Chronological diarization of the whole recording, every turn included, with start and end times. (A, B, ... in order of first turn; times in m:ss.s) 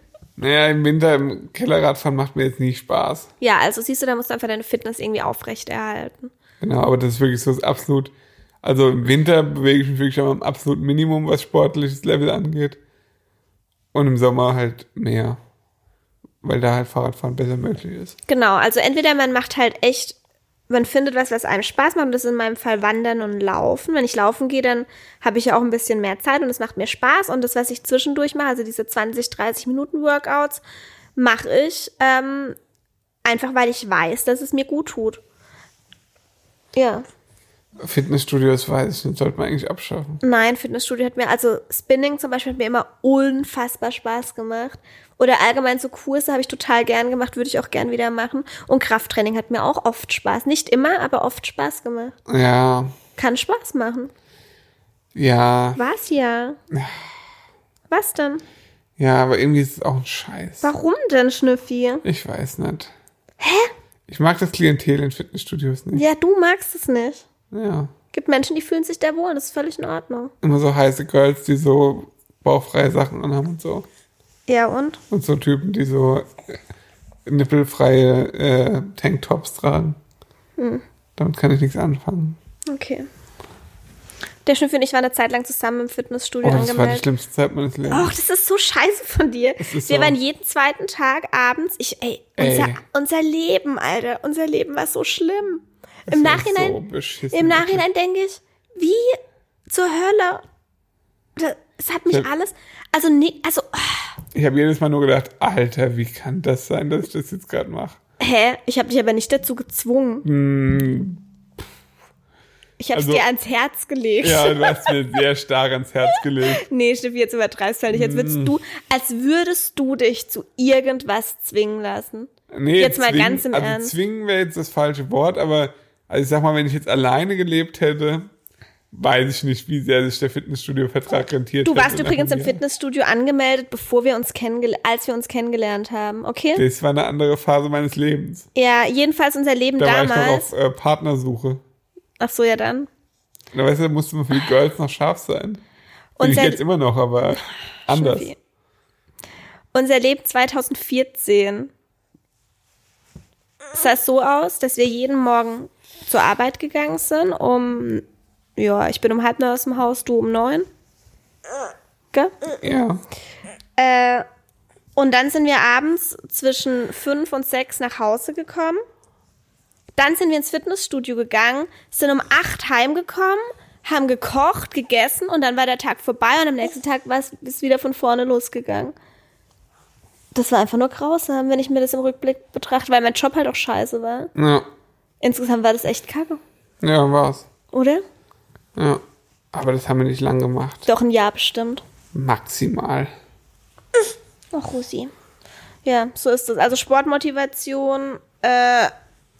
0:00.4-0:03.3 A
0:03.4-0:06.3 B
0:06.6-0:12.8 A
0:13.9-0:15.4 A
0:16.4-0:18.2 A
0:18.3-0:20.2 B
0:20.7-0:30.6 B
0:31.2-0:32.6 B
0:33.2-0:35.2 B
0:36.7-0:37.0 B
0:37.8-0:40.2 A
0:40.2-0:52.2 B
0:52.3-0:52.9 A
0:53.2-0:54.1 B
0:55.1-0:55.8 A
0:55.8-0:56.6 B
0:56.7-0:57.0 A
0:57.9-0:58.4 B
0:59.0-1:00.7 A
1:00.6-1:02.0 B
1:02.0-1:02.9 A
1:03.4-1:03.7 B
1:04.1-1:06.0 A
1:05.9-1:07.2 B
1:07.5-1:07.9 A
1:08.1-1:10.3 B
1:10.4-1:13.8 A
1:14.5-1:15.0 B
1:15.1-1:16.6 A
1:17.2-1:20.0 A
1:20.6-1:20.8 B
1:21.2-1:22.4 A
1:22.7-1:23.1 B
1:24.4-1:27.0 B
1:26.4-1:28.1 A
1:27.9-1:36.8 B
1:29.6-1:30.2 A
1:32.4-1:32.8 A
1:36.1-1:37.8 A
1:37.3-1:40.4 B
1:41.4-1:44.1 B
1:44.3-1:48.0 A
1:48.2-1:50.2 B
1:50.2-1:51.2 A
1:52.8-1:54.9 B
1:52.9-1:53.2 A
1:54.2-1:56.6 A
1:56.4-2:03.9 B
1:57.9-1:58.5 A
2:02.5-2:08.3 A
2:08.9-2:12.6 A
2:11.6-2:16.6 B
2:16.6-2:18.5 A
2:18.5-2:20.5 B
2:19.8-2:21.6 A
2:22.2-2:22.9 B
2:23.5-2:25.6 A
2:26.2-2:26.6 B
2:26.2-2:28.3 A
2:27.9-2:28.4 B
2:29.7-2:31.7 B
2:33.7-2:38.0 B
2:38.6-2:40.7 B
2:42.6-2:43.0 A
2:43.8-2:44.2 B
2:45.0-2:48.8 B
2:50.0-2:58.9 B
3:00.3-3:04.3 B
3:04.3-3:04.7 A
3:05.2-3:06.4 B
3:06.8-3:07.5 A
3:07.7-3:08.0 B
3:08.8-3:09.0 A
3:09.5-3:10.9 A
3:10.8-3:11.8 B
3:12.1-3:13.1 A
3:14.5-3:15.1 B
3:15.8-3:18.9 B